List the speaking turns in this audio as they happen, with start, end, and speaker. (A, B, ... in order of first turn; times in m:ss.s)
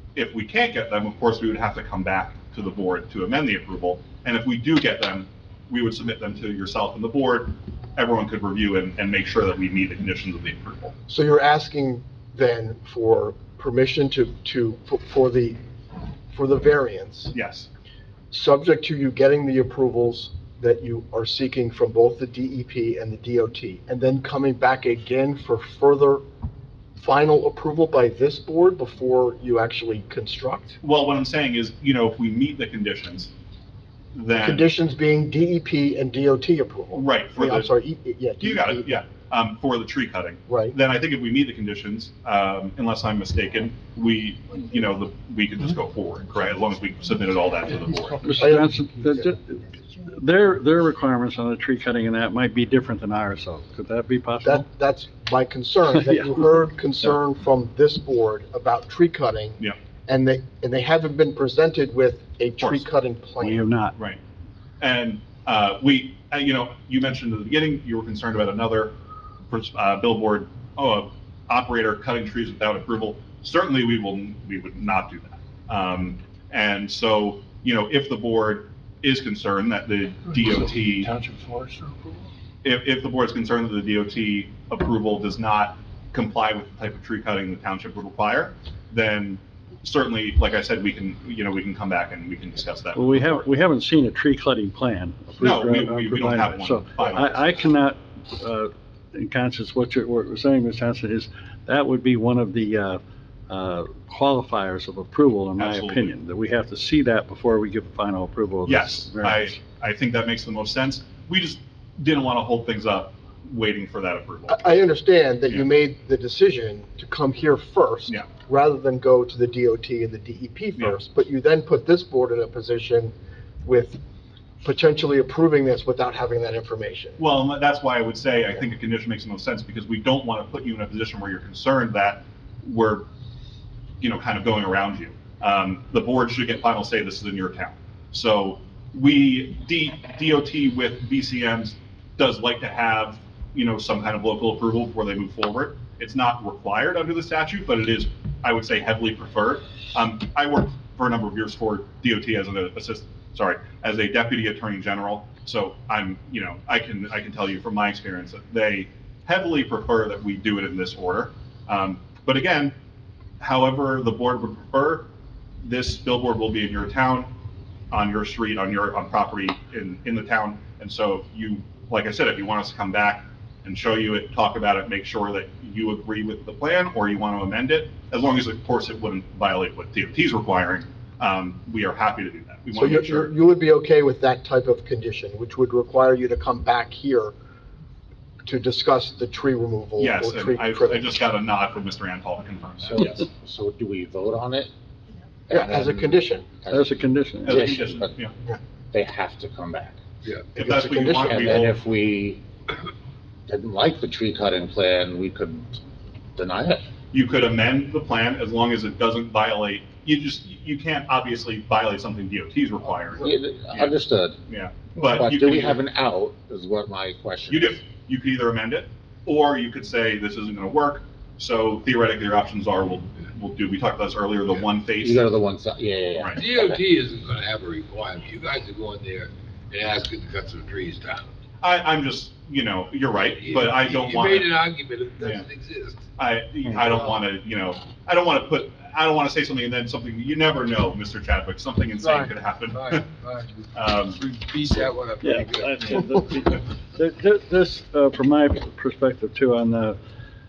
0:00.1-0:10.9 A
0:11.1-0:15.6 B
0:16.3-0:17.3 B
0:17.3-0:17.7 A
0:18.3-0:26.2 B
0:27.0-0:30.8 B
0:30.8-0:33.3 A
0:34.1-0:34.7 A
0:34.3-0:39.0 B
0:36.9-0:37.7 A
0:38.4-0:48.2 A
0:40.5-0:40.7 B
0:48.2-0:54.6 C
0:48.4-0:49.2 B
0:54.4-1:03.7 B
0:55.9-0:56.6 C
1:02.6-1:02.8 A
1:03.4-1:03.9 C
1:04.8-1:08.9 A
1:09.5-1:21.1 A
1:20.8-1:22.2 C
1:22.6-1:33.4 A
1:33.0-1:49.6 C
1:35.4-1:37.7 A
1:45.6-1:46.1 A
1:48.7-1:54.8 A
1:54.5-2:04.0 B
2:04.6-2:07.2 B
2:07.2-2:13.1 A
2:14.0-2:42.8 A
2:43.4-2:45.1 A
2:45.6-2:47.3 A
2:47.9-3:03.3 A
3:02.8-3:07.3 B
3:08.4-3:11.2 B
3:10.0-3:13.2 A
3:12.9-3:14.7 D
3:15.5-3:18.1 D
3:15.5-3:16.4 B
3:16.7-3:17.7 C
3:17.4-3:18.3 A
3:18.9-3:20.0 D
3:20.5-3:21.8 A
3:20.6-3:21.7 B
3:20.6-3:22.4 D
3:23.5-3:25.8 D
3:26.3-3:26.9 D
3:27.1-3:34.0 A
3:33.2-3:34.4 D
3:34.5-3:35.8 A
3:35.0-3:37.8 D
3:37.5-3:45.2 A
3:45.0-3:46.8 D
3:46.1-3:46.4 A
3:46.4-3:51.3 E
3:51.6-3:54.6 A
3:53.5-3:56.1 E
3:55.2-3:55.5 A
3:56.2-4:03.0 A
4:02.2-4:06.1 E
4:03.7-4:04.2 A
4:05.2-4:10.0 C